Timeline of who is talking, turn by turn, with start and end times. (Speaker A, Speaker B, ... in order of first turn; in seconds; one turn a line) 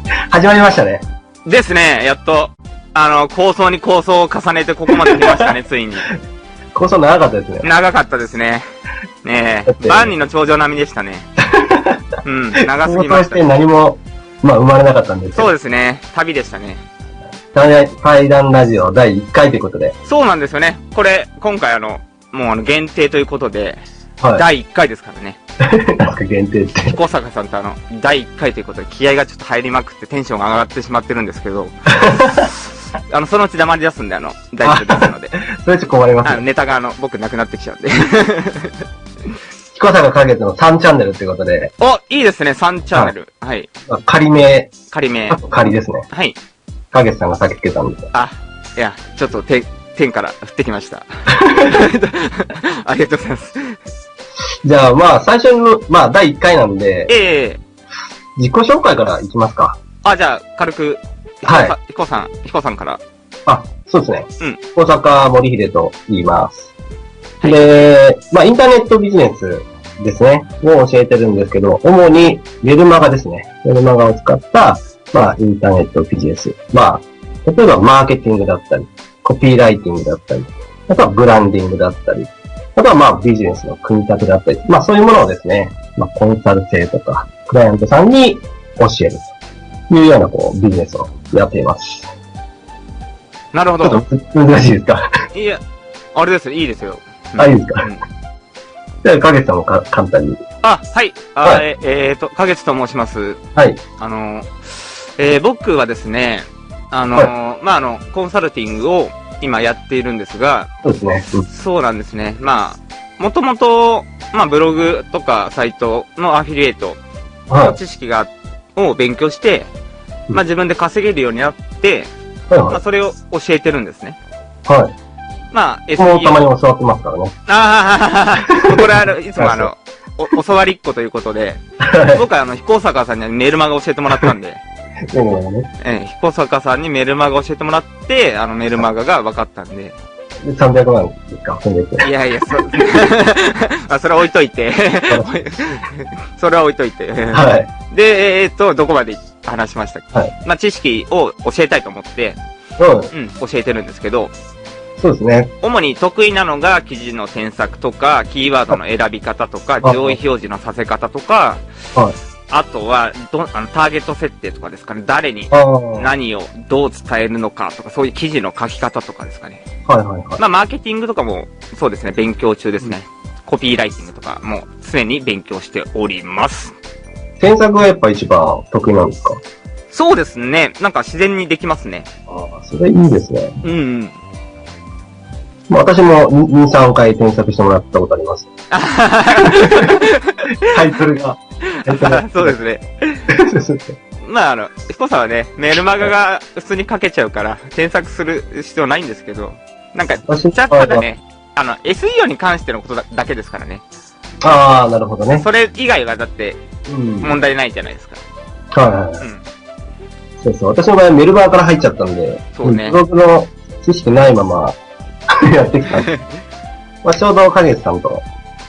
Speaker A: 0.3-1.0
Speaker B: 1.5-6.1
Speaker A: 4.9-5.5
Speaker A: 6.8-7.7
Speaker B: 7.6-8.7
Speaker B: 9.2-11.3
Speaker A: 9.7-10.1
Speaker A: 11.5-12.0
Speaker B: 12.2-13.4
Speaker A: 12.7-15.5
Speaker B: 15.3-16.8
Speaker A: 17.5-19.9
Speaker B: 20.1-23.8
Speaker B: 24.4-25.4
Speaker A: 25.7-27.0
Speaker B: 26.8-35.3
Speaker A: 31.9-32.5
Speaker A: 34.6-36.4
Speaker B: 36.2-38.8
Speaker A: 39.7-41.7
Speaker B: 41.8-43.7
Speaker A: 43.9-44.7
Speaker B: 44.9-45.4
Speaker A: 45.3-46.1
Speaker B: 46.1-46.4
Speaker A: 46.9-48.1
Speaker B: 48.1-53.8
Speaker A: 51.4-51.8
Speaker A: 54.6-57.1
Speaker B: 57.1-57.6
Speaker A: 58.4-59.8
Speaker B: 60.0-63.0
Speaker A: 61.5-61.8
Speaker A: 63.5-66.7
Speaker B: 67.4-67.9
Speaker A: 67.4-89.3
Speaker A: 89.9-92.1
Speaker B: 93.5-94.0
Speaker A: 93.8-95.1
Speaker B: 95.3-95.6
Speaker B: 96.2-98.0
Speaker A: 97.4-97.9
Speaker A: 99.0-100.4
Speaker B: 100.6-103.4
Speaker B: 104.0-110.7
Speaker A: 110.8-111.5
Speaker B: 111.5-117.0
Speaker A: 117.5-117.8
Speaker B: 117.6-119.7
Speaker B: 120.3-122.1
Speaker A: 122.5-122.8
Speaker B: 122.7-124.2
Speaker A: 124.7-124.9
Speaker B: 125.5-126.5
Speaker A: 126.0-127.3
Speaker B: 127.5-131.6
Speaker A: 129.4-129.7
Speaker A: 131.8-132.2
Speaker B: 132.1-134.6
Speaker A: 135.1-135.7
Speaker B: 135.8-139.9
Speaker A: 140.5-142.1
Speaker B: 142.0-152.4
Speaker A: 147.3-147.7
Speaker A: 152.8-153.1
Speaker B: 153.1-154.3
Speaker A: 155.0-155.5
Speaker B: 155.6-161.6
Speaker A: 159.8-160.2
Speaker B: 162.5-169.6
Speaker A: 165.5-166.1
Speaker A: 169.9-170.4
Speaker B: 170.4-176.8
Speaker A: 177.4-179.4
Speaker B: 179.9-182.1
Speaker A: 182.3-183.6
Speaker B: 183.6-184.2
Speaker A: 185.7-188.5
Speaker B: 188.7-190.6
Speaker A: 189.4-190.0
Speaker A: 190.7-192.6
Speaker B: 191.7-193.2
Speaker A: 193.3-194.0
Speaker B: 194.2-203.8
Speaker A: 200.3-201.1
Speaker A: 204.4-205.4
Speaker B: 205.4-206.6
Speaker A: 206.9-207.3
Speaker B: 207.2-208.2
Speaker A: 208.7-209.2
Speaker A: 210.4-214.8
Speaker B: 212.5-213.0
Speaker A: 215.4-216.1
Speaker A: 217.0-218.2